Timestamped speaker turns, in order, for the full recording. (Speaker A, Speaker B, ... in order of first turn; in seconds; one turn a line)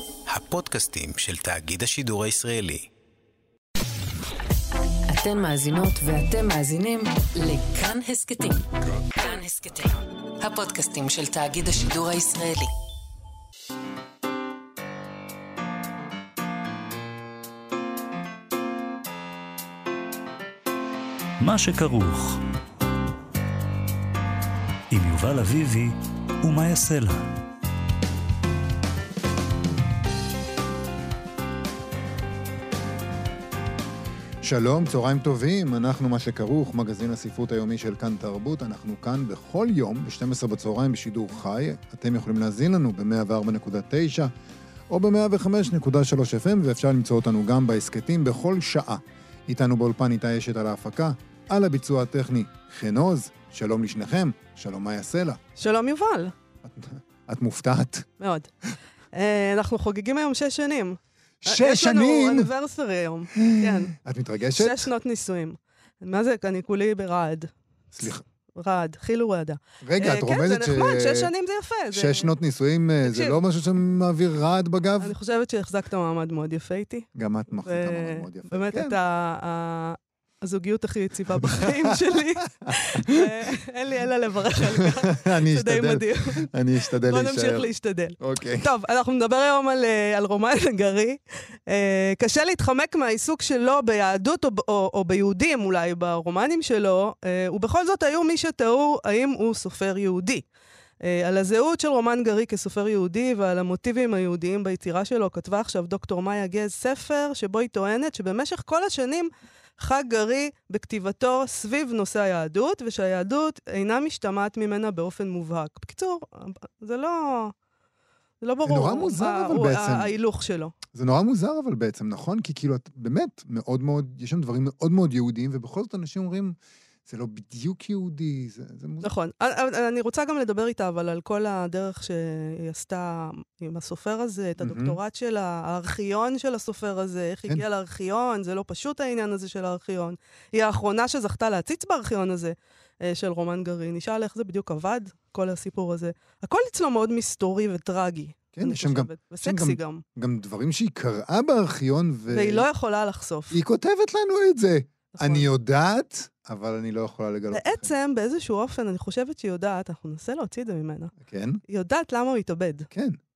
Speaker A: 0.3-2.9
Speaker B: 5.1-12.7
Speaker C: 21.4-22.4
Speaker C: 24.9-27.3
Speaker D: 34.4-44.3
Speaker D: 44.9-55.4
Speaker E: 55.6-56.3
Speaker D: 56.6-58.1
Speaker E: 58.2-58.5
Speaker E: 59.1-63.9
Speaker D: 61.4-62.5
Speaker D: 63.3-64.9
Speaker E: 64.6-67.5
Speaker D: 67.9-68.2
Speaker E: 68.5-72.3
Speaker D: 69.8-71.3
Speaker D: 71.9-75.1
Speaker E: 73.0-73.4
Speaker E: 75.0-77.1
Speaker D: 77.1-79.0
Speaker E: 77.6-100.5
Speaker D: 81.4-83.1
Speaker D: 85.1-88.7
Speaker E: 101.0-117.5
Speaker E: 118.4-120.7
Speaker D: 118.6-120.1
Speaker D: 120.9-129.1
Speaker E: 129.0-150.0
Speaker D: 134.6-135.0
Speaker D: 148.5-152.7
Speaker E: 152.3-153.6
Speaker D: 153.5-157.9
Speaker E: 155.2-155.5
Speaker E: 157.5-161.1
Speaker D: 161.2-161.6
Speaker E: 161.7-162.9
Speaker D: 162.9-163.2